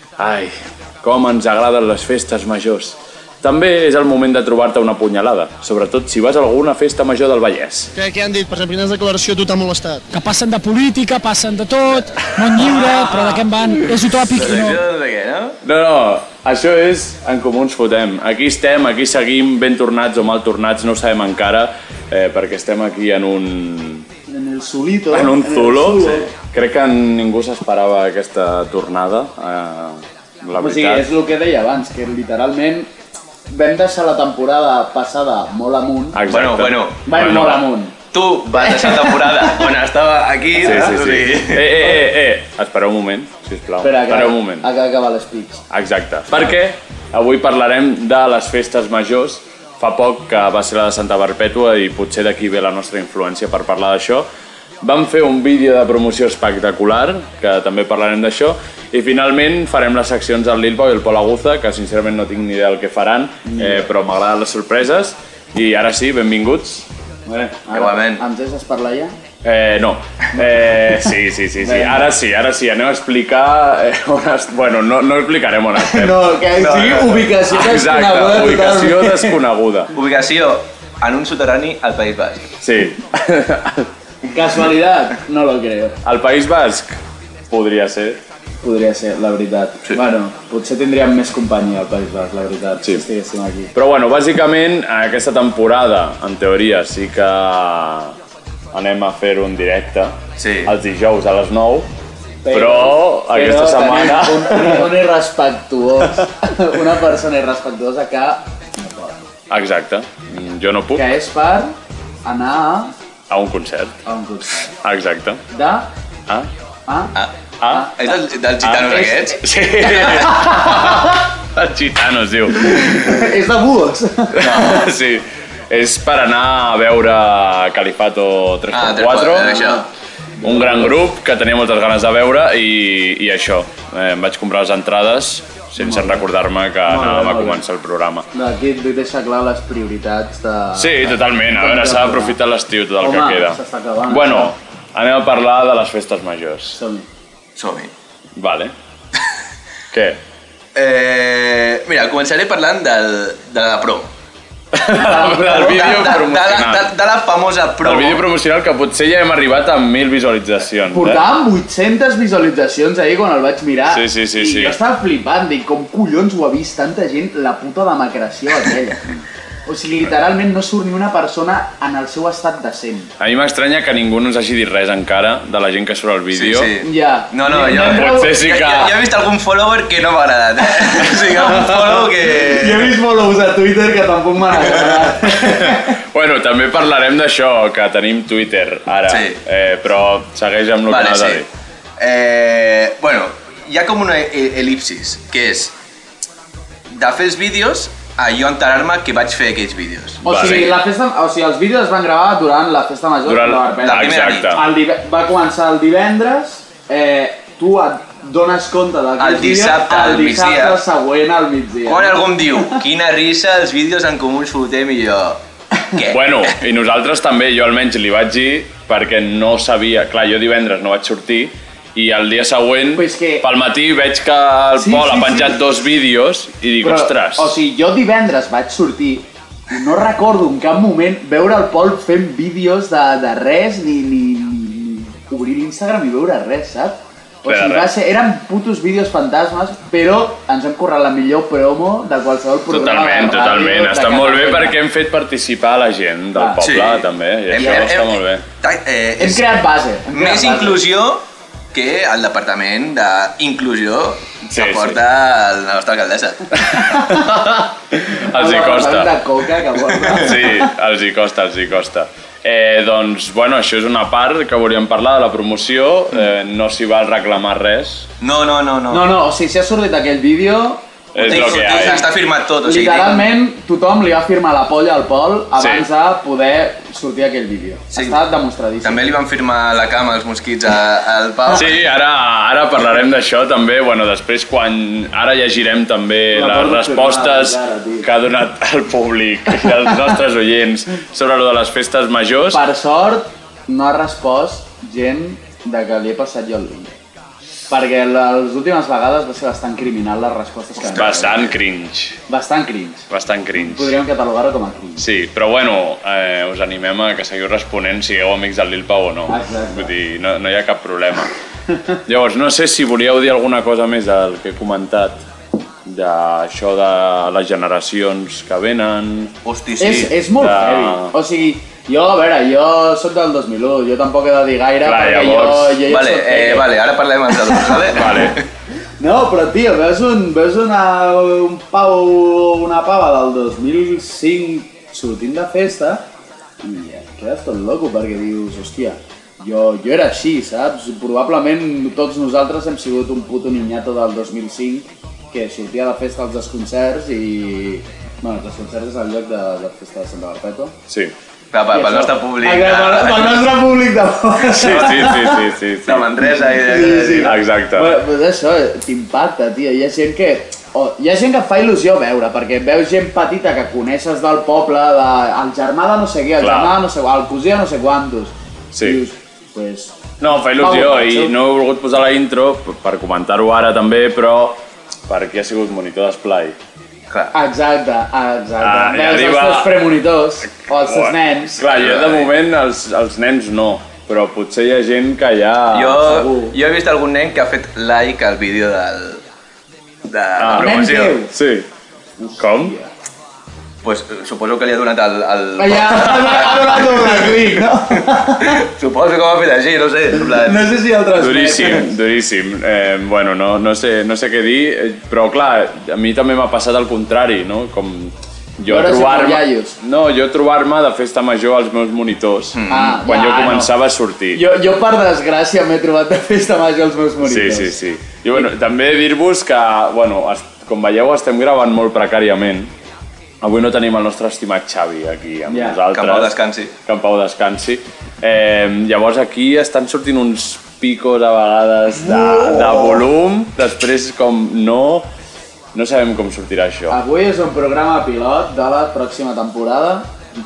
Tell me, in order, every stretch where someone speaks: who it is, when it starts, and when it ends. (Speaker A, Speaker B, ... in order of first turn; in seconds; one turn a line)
Speaker A: 0.2-7.9
Speaker B: 7.9-10.0
Speaker C: 10.1-14.8
Speaker D: 14.3-15.6
Speaker A: 15.6-24.1
Speaker E: 24.3-26.3
Speaker A: 25.1-31.1
Speaker E: 30.5-32.9
Speaker E: 33.5-36.2
Speaker A: 36.1-37.7
Speaker D: 36.3-37.0
Speaker E: 37.0-37.9
Speaker D: 38.1-41.8
Speaker E: 38.6-39.6
Speaker A: 40.6-44.7
Speaker E: 43.8-45.6
Speaker A: 45.7-54.2
Speaker A: 54.8-66.9
Speaker E: 63.4-63.9
Speaker E: 67.3-69.1
Speaker D: 67.7-68.2
Speaker A: 69.4-76.2
Speaker E: 70.3-71.0
Speaker E: 71.6-72.1
Speaker E: 75.8-79.4
Speaker D: 76.6-77.3
Speaker A: 77.5-79.9
Speaker D: 79.9-82.5
Speaker A: 82.6-83.9
Speaker E: 84.2-86.0
Speaker A: 86.0-87.0
Speaker A: 87.5-88.2
Speaker E: 88.6-93.7
Speaker A: 93.7-98.1
Speaker A: 98.7-101.9
Speaker D: 100.4-100.7
Speaker E: 102.4-109.2
Speaker A: 102.5-104.9
Speaker A: 109.5-111.1
Speaker E: 110.9-112.9
Speaker A: 113.3-114.0
Speaker E: 114.0-114.7
Speaker A: 114.8-115.4
Speaker E: 115.5-115.9
Speaker E: 116.9-117.1
Speaker A: 117.6-117.9
Speaker D: 118.0-120.3
Speaker A: 118.6-123.3
Speaker E: 120.7-121.0
Speaker E: 122.6-124.8
Speaker D: 124.4-124.7
Speaker A: 124.4-129.7
Speaker D: 128.7-129.8
Speaker E: 129.4-129.8
Speaker E: 130.4-131.0
Speaker A: 130.4-138.2
Speaker E: 135.8-136.2
Speaker E: 136.8-137.6
Speaker E: 138.3-142.4
Speaker A: 140.8-146.8
Speaker E: 143.0-144.5
Speaker E: 146.7-147.1
Speaker D: 147.6-147.9
Speaker A: 148.3-148.7
Speaker A: 149.9-150.2
Speaker D: 150.7-154.1
Speaker A: 154.7-156.9
Speaker D: 155.1-158.2
Speaker A: 157.8-161.2
Speaker E: 160.9-169.1
Speaker A: 163.9-164.8
Speaker E: 169.7-173.1
Speaker A: 173.2-176.7
Speaker D: 176.3-182.9
Speaker E: 176.8-178.4
Speaker A: 177.8-179.0
Speaker E: 181.1-181.7
Speaker E: 182.3-185.9
Speaker A: 185.4-191.5
Speaker D: 189.1-189.4
Speaker D: 190.9-191.4
Speaker D: 192.0-195.7
Speaker D: 196.9-200.7
Speaker E: 200.2-212.8
Speaker A: 200.2-200.7
Speaker A: 203.2-204.6
Speaker D: 203.8-204.5
Speaker D: 209.2-210.8
Speaker D: 211.8-215.4
Speaker D: 215.9-216.5
Speaker A: 216.1-227.6
Speaker E: 222.9-223.5
Speaker E: 224.8-225.6
Speaker E: 226.8-244.8
Speaker A: 237.4-237.9
Speaker A: 242.7-248.4
Speaker E: 246.3-246.6
Speaker D: 246.6-249.5
Speaker E: 247.6-247.8
Speaker E: 249.2-250.8
Speaker D: 250.1-256.6
Speaker A: 254.5-255.0
Speaker A: 256.7-259.1
Speaker E: 256.7-257.3
Speaker E: 258.2-260.7
Speaker A: 260.1-268.1
Speaker D: 268.2-269.1
Speaker E: 268.9-271.9
Speaker A: 271.1-272.1
Speaker D: 271.2-273.3
Speaker E: 272.6-279.0
Speaker A: 275.5-275.9
Speaker D: 277.9-278.2
Speaker D: 278.8-281.8
Speaker A: 281.5-292.6
Speaker E: 286.3-288.1
Speaker E: 292.5-296.9
Speaker E: 297.7-301.6
Speaker A: 300.8-302.2
Speaker E: 302.3-305.1
Speaker A: 303.1-303.9
Speaker A: 305.0-311.3
Speaker E: 309.3-309.9
Speaker E: 311.7-311.9
Speaker A: 312.1-315.2
Speaker A: 315.8-319.3
Speaker D: 319.4-320.1
Speaker E: 319.8-326.7
Speaker A: 320.3-321.1
Speaker A: 324.8-325.8
Speaker D: 325.9-328.4
Speaker E: 327.5-328.2
Speaker A: 327.9-328.4
Speaker E: 329.0-336.0
Speaker E: 336.6-350.8
Speaker A: 350.9-351.1
Speaker D: 351.5-353.5
Speaker E: 351.7-355.5
Speaker A: 354.5-356.2
Speaker D: 355.8-357.4
Speaker E: 356.4-371.3
Speaker A: 357.1-358.0
Speaker A: 366.4-366.8
Speaker A: 368.7-369.0
Speaker A: 370.2-376.6
Speaker E: 377.3-381.7
Speaker A: 378.6-379.9
Speaker A: 380.7-386.2
Speaker D: 381.7-382.3
Speaker D: 385.7-389.2
Speaker E: 386.0-386.5
Speaker D: 390.1-391.2
Speaker A: 390.4-391.7
Speaker E: 390.5-391.3
Speaker E: 392.2-392.9
Speaker A: 392.4-392.8
Speaker D: 393.8-400.7
Speaker E: 395.6-398.6
Speaker E: 400.3-401.9
Speaker A: 401.2-414.4
Speaker E: 408.7-409.8
Speaker D: 412.6-413.0
Speaker E: 412.7-413.7
Speaker E: 414.3-417.8
Speaker A: 417.2-422.7
Speaker A: 423.4-435.1
Speaker E: 425.5-425.8
Speaker D: 425.9-426.7
Speaker E: 432.1-433.0
Speaker A: 435.7-437.0
Speaker E: 436.9-440.1